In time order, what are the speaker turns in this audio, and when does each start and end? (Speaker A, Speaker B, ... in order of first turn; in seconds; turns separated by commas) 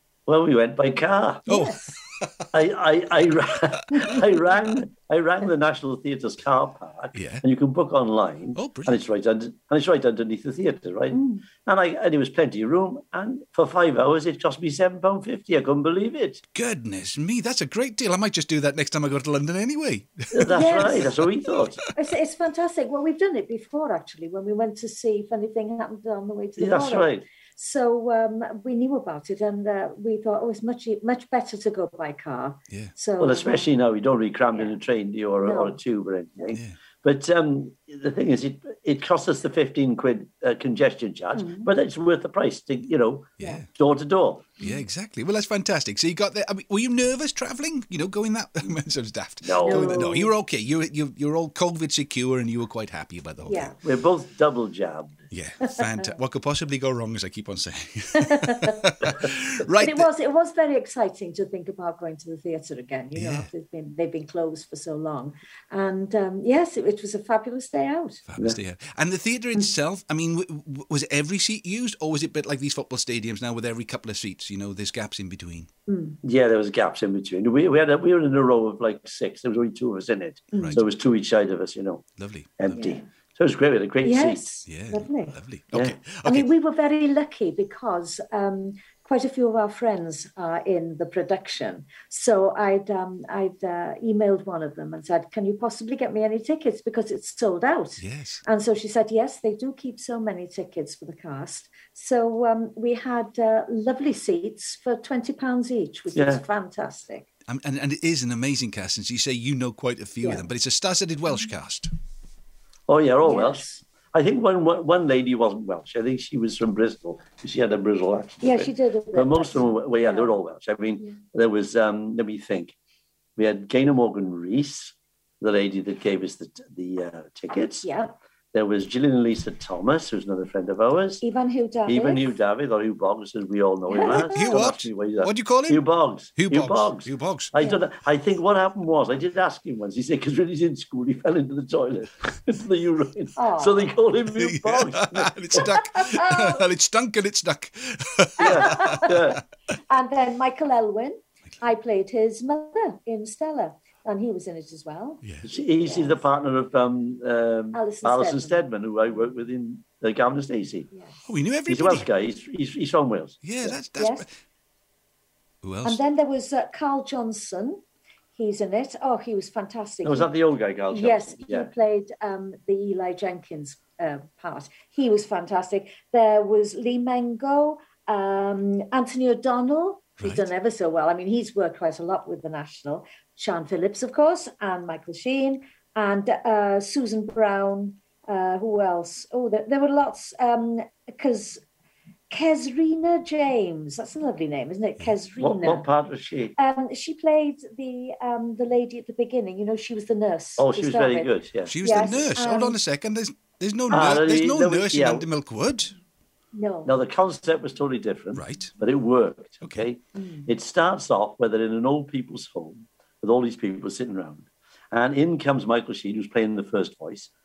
Speaker A: 0.3-1.5, Speaker B: 1.5-2.0, Speaker C: 1.5-2.5, Speaker A: 2.5-16.4, Speaker C: 7.1-7.4, Speaker C: 8.6-9.0, Speaker B: 11.1-11.4, Speaker C: 16.5-21.3, Speaker A: 20.3-21.8, Speaker B: 20.5-21.1, Speaker B: 21.9-33.7, Speaker A: 26.6-27.3, Speaker A: 33.2-44.6, Speaker B: 35.4-35.8, Speaker B: 41.4-41.7, Speaker C: 43.4-43.7, Speaker C: 44.6-53.7, Speaker A: 49.4-50.0, Speaker B: 49.6-50.3, Speaker B: 53.5-53.8, Speaker A: 53.8-55.2, Speaker C: 55.3-60.1, Speaker B: 55.6-56.0, Speaker B: 58.2-58.8, Speaker B: 59.7-68.2, Speaker C: 63.1-63.5, Speaker C: 68.3-75.7, Speaker B: 75.9-76.2, Speaker A: 76.2-84.4, Speaker B: 80.5-80.8, Speaker C: 80.5-80.8, Speaker C: 82.2-82.9, Speaker B: 82.7-83.0, Speaker B: 84.0-85.4, Speaker C: 84.7-86.5, Speaker A: 85.7-86.0, Speaker B: 86.2-107.3, Speaker C: 98.0-98.4, Speaker A: 106.2-106.4, Speaker C: 107.5-111.9, Speaker A: 112.9-122.8, Speaker B: 113.2-113.8, Speaker B: 118.4-120.3, Speaker A: 123.4-127.9, Speaker B: 127.8-128.1, Speaker A: 128.5-131.2, Speaker B: 131.2-132.4, Speaker A: 131.9-145.8, Speaker B: 133.9-134.4, Speaker C: 134.1-137.5, Speaker B: 137.6-137.8, Speaker B: 143.4-143.9, Speaker C: 144.4-149.4, Speaker B: 146.1-146.6, Speaker A: 148.4-149.4, Speaker B: 148.4-149.3, Speaker B: 149.9-156.2, Speaker C: 155.2-155.5, Speaker A: 155.5-160.9, Speaker B: 157.7-158.7, Speaker B: 160.9-161.2, Speaker C: 161.2-162.1, Speaker A: 161.7-163.5, Speaker C: 163.4-164.3, Speaker B: 163.9-164.3, Speaker C: 165.6-166.0, Speaker B: 165.8-167.8, Speaker B: 168.3-170.3, Speaker A: 170.0-171.7, Speaker B: 170.9-191.6, Speaker C: 180.2-180.5, Speaker B: 192.3-195.9, Speaker A: 195.4-196.6, Speaker B: 196.6-202.8, Speaker A: 200.6-201.8, Speaker C: 201.7-206.0, Speaker A: 203.9-205.3, Speaker B: 206.5-206.9, Speaker A: 206.8-217.3, Speaker C: 208.3-208.7, Speaker C: 209.6-209.9, Speaker B: 210.2-210.5